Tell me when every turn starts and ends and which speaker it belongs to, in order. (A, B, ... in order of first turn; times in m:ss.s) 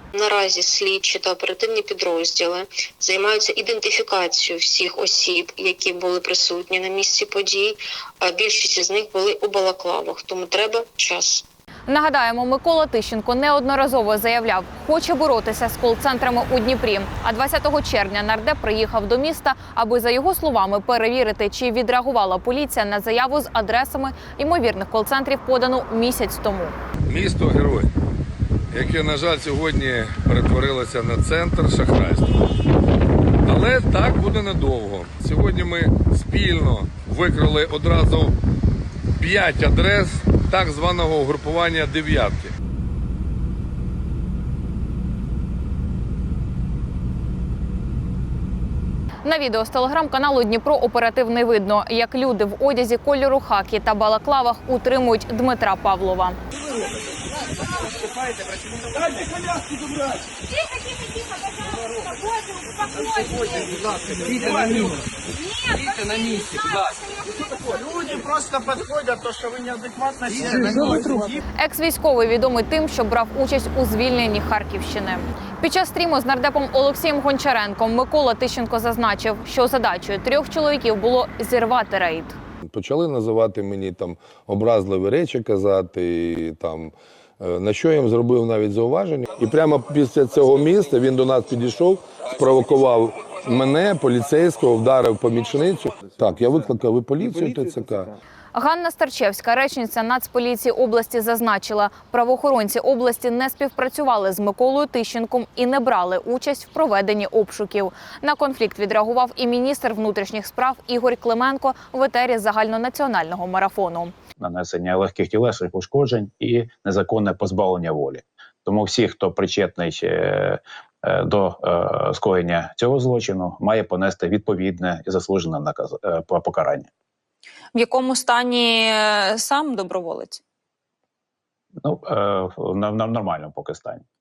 0:00.1-0:11.4 A
0:11.9-0:26.8 B
0:27.1-0:27.9 C
0:28.7-0:32.4 C
0:33.4-0:38.4 C
0:39.2-0:42.5 C
0:49.2-0:56.4 B
1:07.8-1:11.0 D
1:11.6-1:22.4 B
1:22.7-1:38.2 C
1:38.5-1:54.1 B
1:54.4-2:06.9 E
2:07.8-2:10.4 F
2:11.8-2:14.0 E